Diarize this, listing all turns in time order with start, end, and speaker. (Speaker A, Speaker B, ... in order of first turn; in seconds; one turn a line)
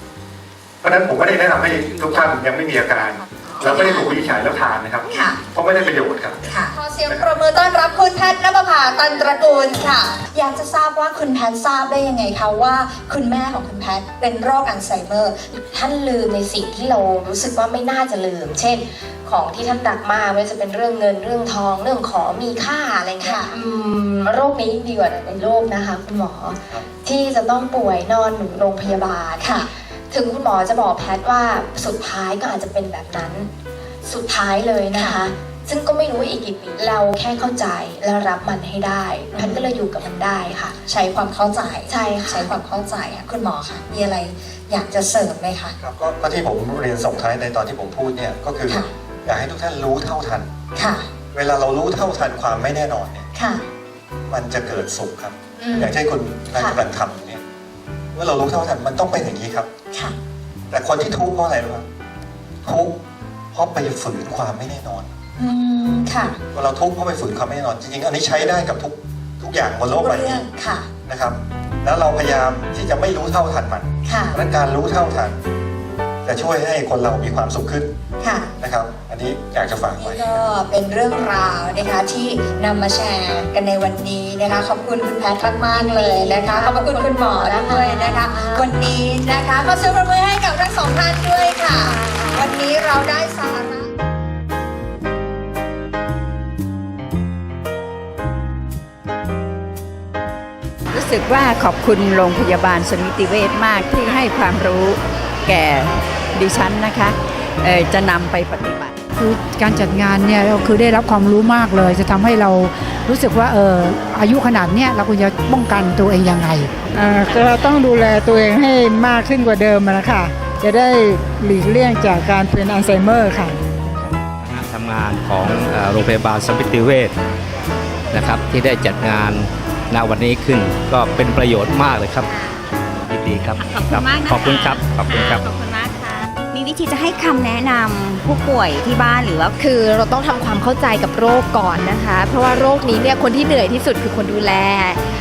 Speaker A: 0.8-6.4
Speaker B: 3.5-4.1
Speaker B: 5.1-5.4
Speaker B: 6.5-15.5
Speaker C: 15.7-33.5
Speaker B: 23.2-23.5
Speaker B: 29.4-29.7
Speaker C: 34.0-40.8
Speaker B: 39.3-39.6
Speaker B: 40.9-45.7
Speaker C: 41.9-42.5
Speaker A: 45.8-50.5
Speaker B: 50.8-51.1
Speaker A: 51.3-53.3
Speaker B: 53.4-53.6
Speaker A: 54.3-57.4
Speaker B: 55.7-55.9
Speaker A: 58.1-59.7
Speaker A: 60.7-61.9
Speaker A: 62.6-63.0
Speaker A: 63.5-65.1
Speaker B: 65.4-66.4
Speaker A: 66.5-70.5
Speaker B: 70.0-70.9
Speaker A: 71.0-75.4
Speaker B: 74.0-74.4
Speaker A: 76.2-77.9
Speaker B: 78.2-78.5
Speaker A: 78.6-80.4
Speaker B: 80.0-93.9
Speaker C: 85.8-88.7
Speaker C: 91.9-92.2
Speaker D: 100.9-109.0
Speaker B: 101.1-102.9
Speaker E: 109.2-116.7
Speaker F: 116.9-123.6
Speaker G: 124.5-127.1
Speaker G: 128.1-132.3
Speaker H: 132.3-132.6
Speaker G: 133.1-135.4
Speaker H: 133.6-139.5
Speaker C: 139.6-145.0